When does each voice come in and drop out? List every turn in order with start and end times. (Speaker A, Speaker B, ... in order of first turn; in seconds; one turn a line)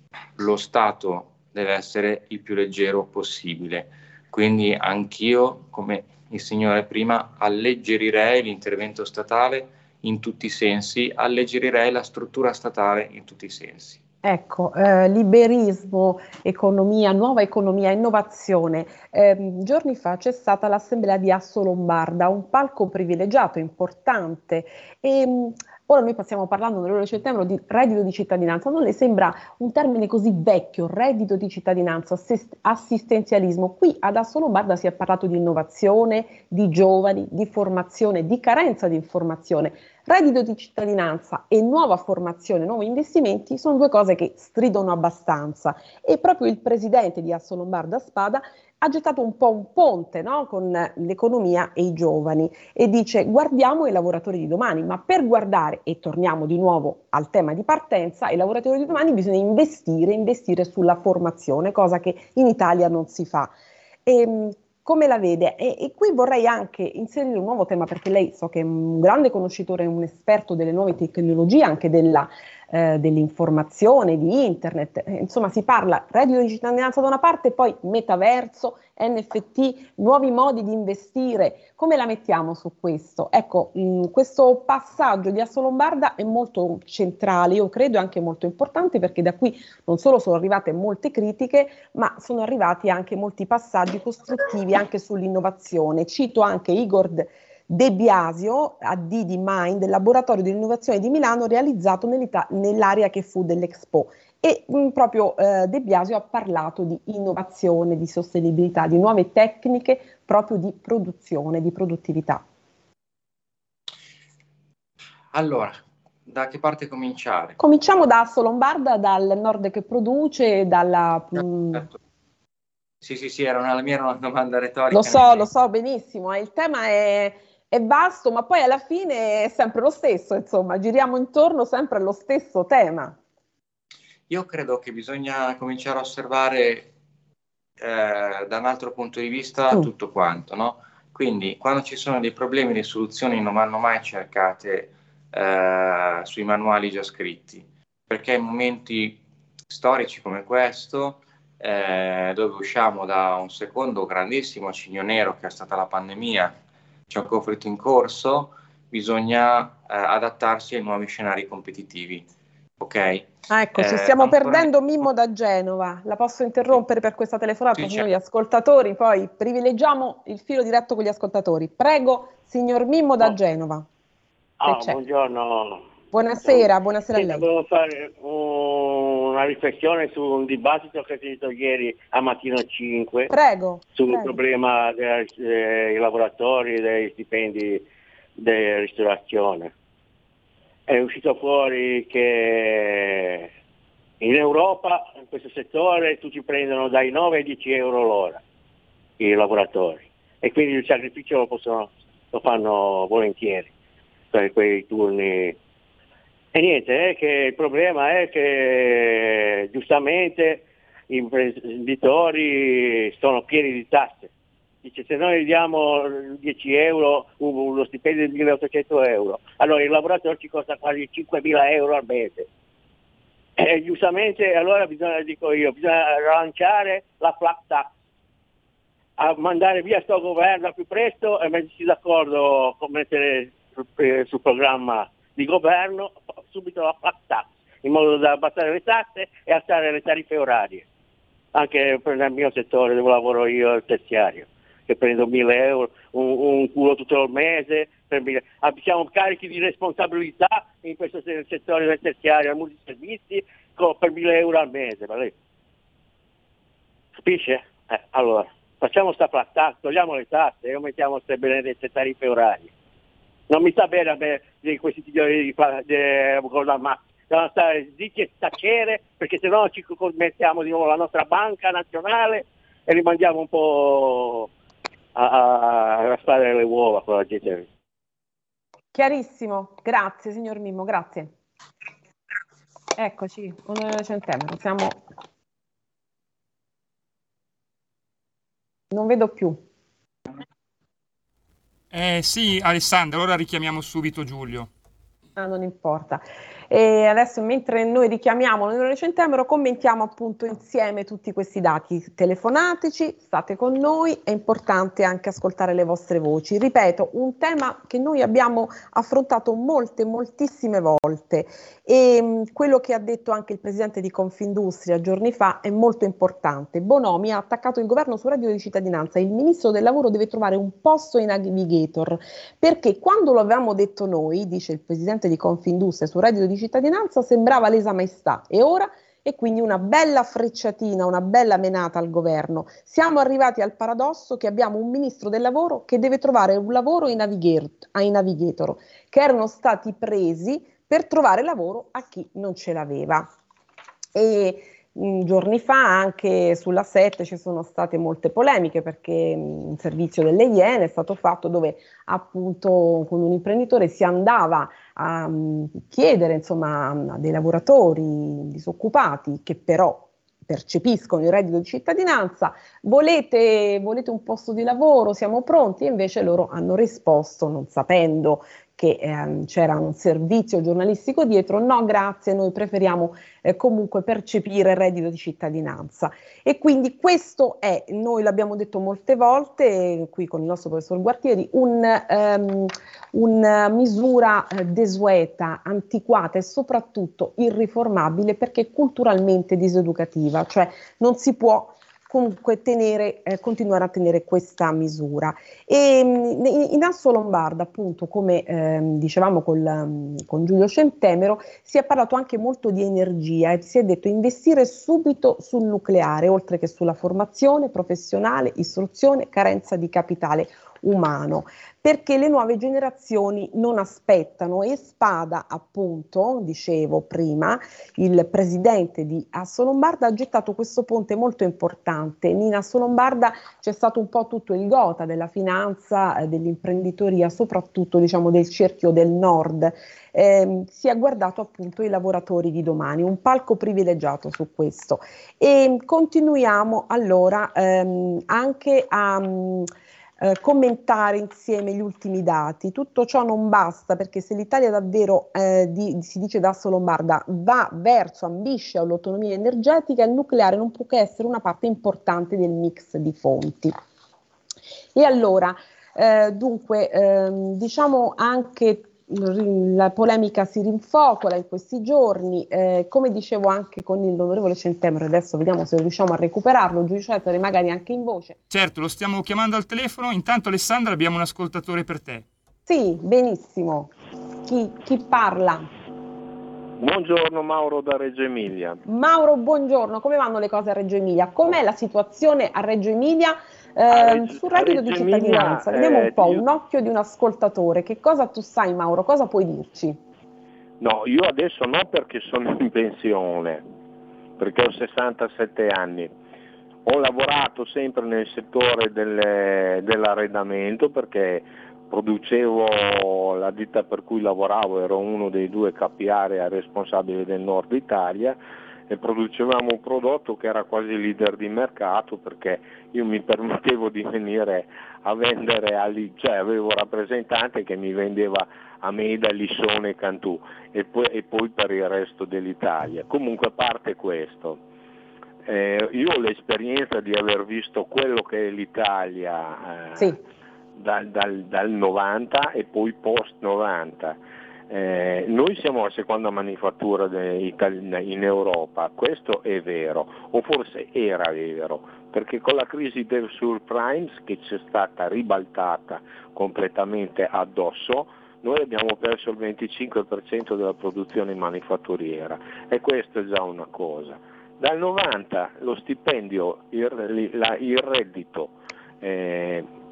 Speaker A: 0.3-14.0
Speaker B: 14.2-63.5
Speaker B: 64.0-112.4
Speaker A: 115.3-117.6
Speaker B: 117.6-121.8
Speaker A: 123.0-125.5
Speaker B: 124.9-133.2
Speaker A: 134.3-136.9
Speaker A: 137.8-156.6
Speaker A: 157.1-162.3
Speaker A: 162.8-164.7
Speaker B: 163.5-173.8
Speaker A: 167.7-168.1
Speaker C: 174.6-175.8
Speaker B: 174.6-175.0
Speaker B: 176.1-177.4
Speaker C: 176.4-183.3
Speaker B: 183.3-184.3
Speaker C: 183.9-187.8
Speaker C: 188.4-189.7
Speaker C: 190.9-193.5
Speaker C: 194.2-198.4
Speaker C: 199.2-203.7
Speaker C: 204.3-205.6
Speaker C: 206.5-214.3
Speaker C: 214.8-222.5
Speaker C: 223.6-227.9
Speaker C: 229.2-240.8
Speaker C: 241.5-255.3
Speaker C: 257.2-262.7
Speaker C: 263.5-274.5
Speaker C: 275.1-277.7
Speaker B: 278.9-281.3
Speaker B: 283.0-285.0
Speaker B: 288.9-289.6
Speaker D: 291.9-294.7
Speaker B: 295.4-343.3
Speaker B: 344.1-439.7
Speaker B: 440.2-453.7
Speaker B: 454.9-468.4
Speaker D: 468.5-472.2
Speaker B: 472.7-473.9
Speaker B: 474.4-475.7
Speaker E: 476.8-478.8
Speaker B: 478.9-490.0
Speaker E: 483.9-486.5
Speaker E: 490.8-493.6
Speaker E: 494.4-496.1
Speaker E: 496.8-524.6
Speaker E: 525.4-530.1
Speaker E: 530.7-559.7